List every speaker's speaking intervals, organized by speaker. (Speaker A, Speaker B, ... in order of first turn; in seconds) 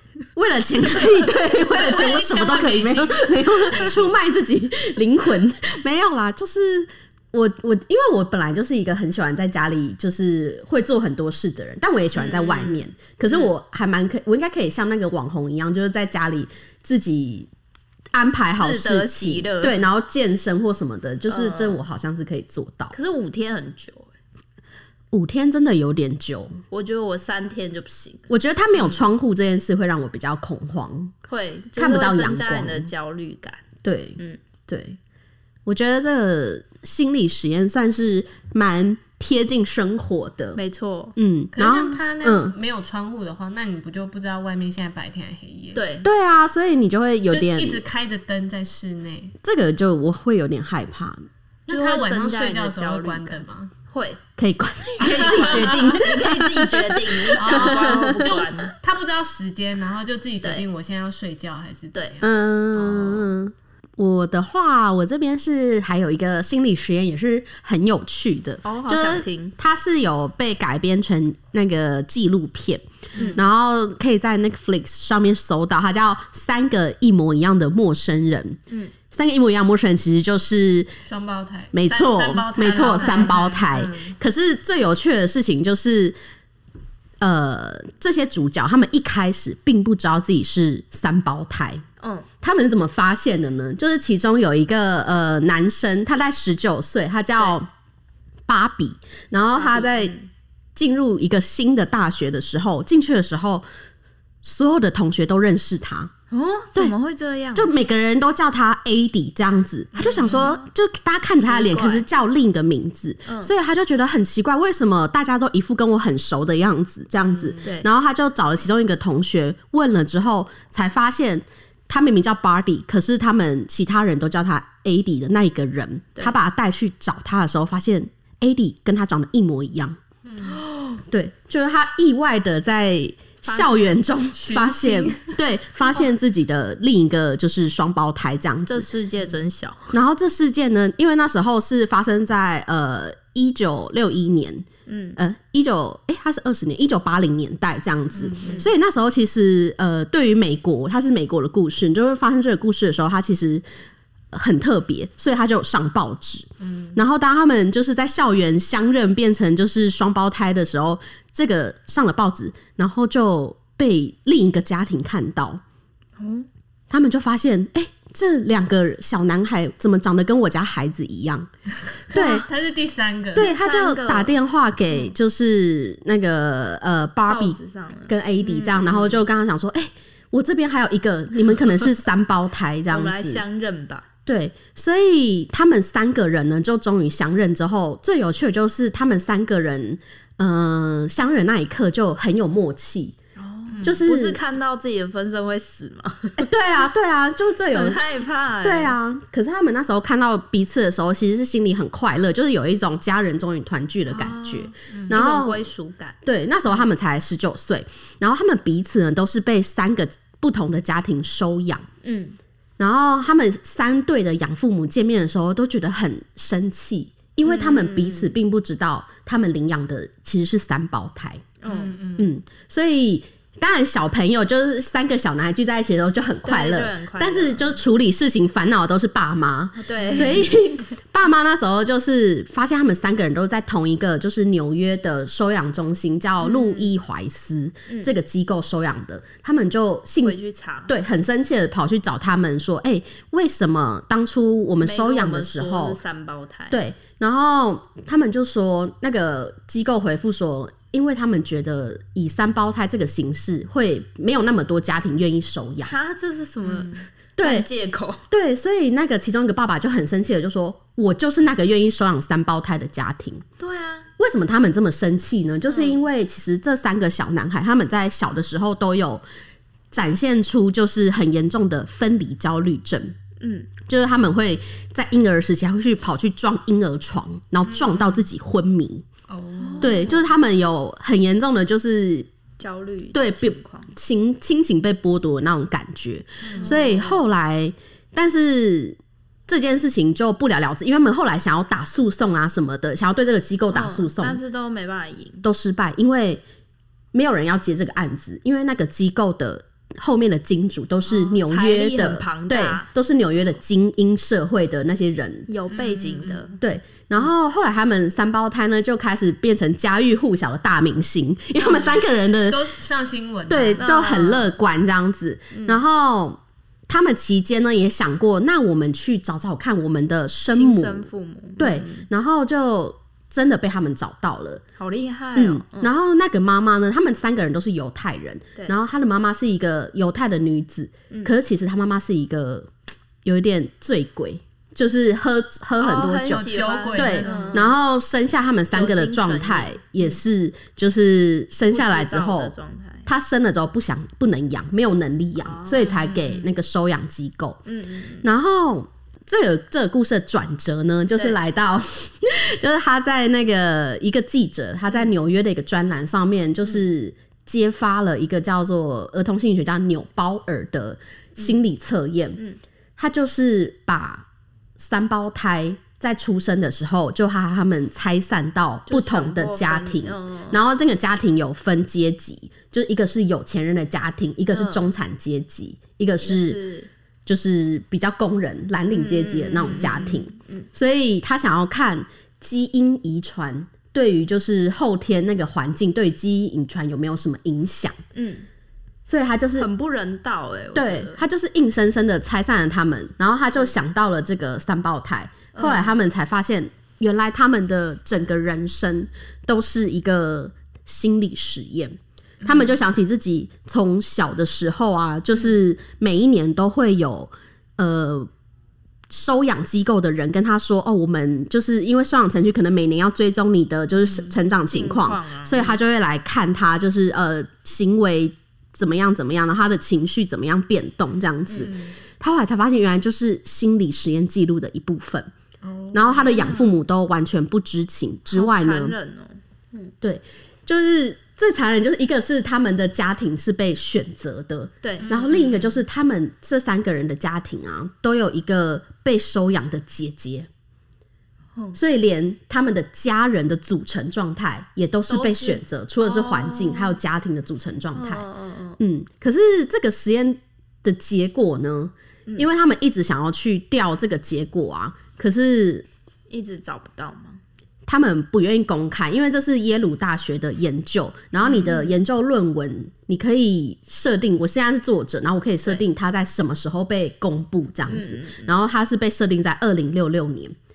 Speaker A: 0.4-17.5, 18.1-22.9, 25.1-26.6, 28.3-31.1, 31.8-32.9, 33.8-35.0, 35.7-40.6, 41.2-42.6, 46.0-47.8, 49.4-51.3, 54.4-58.5, 62.2-78.6, 79.1-80.9, 81.7-86.2, 87.2-91.8, 92.4-97.7, 98.5-100.1, 100.8-103.7, 104.4-106.1, 107.5-130.0, 131.1-138.9, 139.9-144.7, 145.2-153.6, 154.3-165.6, 166.9-171.5, 172.1-172.5, 173.3-183.4, 184.3-193.2, 193.8-194.4, 196.4-198.0, 198.6-205.7, 206.2-211.9, 212.8-221.5, 222.2-246.0, 246.7-255.9, 257.4-257.7, 258.3-263.4, 264.2-269.2, 269.9-273.1, 273.9-279.1, 279.8-282.3, 283.1-294.4, 295.4-296.4, 297.1-305.5, 306.6-312.6, 313.5-321.1, 321.6-324.6, 325.4-332.7, 333.2-342.5, 343.1-347.6, 348.2-362.4, 363.0-364.3, 364.8-376.6, 377.3-388.0, 389.1-389.7, 390.8-408.3, 409.1-425.3, 425.9-428.9, 430.0-440.5, 441.8-448.3, 448.8-455.9, 457.9-470.6
Speaker B: 0.9-4.1, 12.2-13.5, 18.6-19.8, 21.3-21.8, 22.9-24.1, 26.7-29.1, 31.3-33.6, 40.5-41.2, 45.8-46.1, 51.7-54.2, 55.0-58.7, 68.6-69.5, 73.2-73.4, 82.7-83.4, 92.0-92.3, 99.5-100.3, 106.3-107.7, 110.1-110.7, 111.3-112.1, 113.3-113.5, 117.6-117.9, 130.4-131.0, 133.4-134.0, 138.7-140.0, 144.9-145.2, 166.2-166.5, 173.4-174.4, 177.3-179.2, 182.9-184.1, 193.4-196.5, 197.7-199.0, 204.1-206.2, 212.0-212.4, 217.4-218.3, 221.6-222.0, 226.4-227.8, 229.8-230.6, 236.4-236.9, 237.9-238.1, 240.2-240.9, 244.8-246.8, 255.8-258.2, 263.6-264.1, 265.7-266.0, 273.4-273.7, 279.6-280.3, 282.6-283.9, 286.5-287.2, 293.7-295.5, 301.1-302.9, 305.5-306.6, 313.8-314.5, 315.5-315.8, 320.5-322.1, 324.8-325.9, 331.1-331.4, 335.8-337.7, 338.7-340.2, 341.7-343.1, 345.4-346.4, 347.7-348.3, 368.9-370.6, 374.5-374.9, 376.2-376.9, 378.9-380.7, 388.1-388.5, 389.6-391.2, 395.5-396.0, 414.7-415.8, 421.5-421.9, 426.3-426.8, 428.3-429.9, 434.8-435.1, 445.1-447.0, 447.9-448.8, 456.3-457.4, 461.4-461.9, 467.9-468.6
Speaker C: 2.0-2.9, 3.7-4.0, 41.5-45.8, 47.3-49.4, 51.7-53.7, 55.0-55.9, 57.4-63.3, 73.2-73.4, 81.0-84.2, 110.0-110.5, 117.3-117.6, 130.3-130.6, 134.3-135.3, 148.1-148.7, 156.6-157.0, 172.1-173.5, 193.7-194.0, 204.9-205.2, 221.7-222.3, 256.6-256.9, 277.6-278.3, 279.3-280.1, 286.4-286.8, 305.7-306.6, 311.6-314.2, 336.3-337.7, 425.6-426.6, 435.0-435.8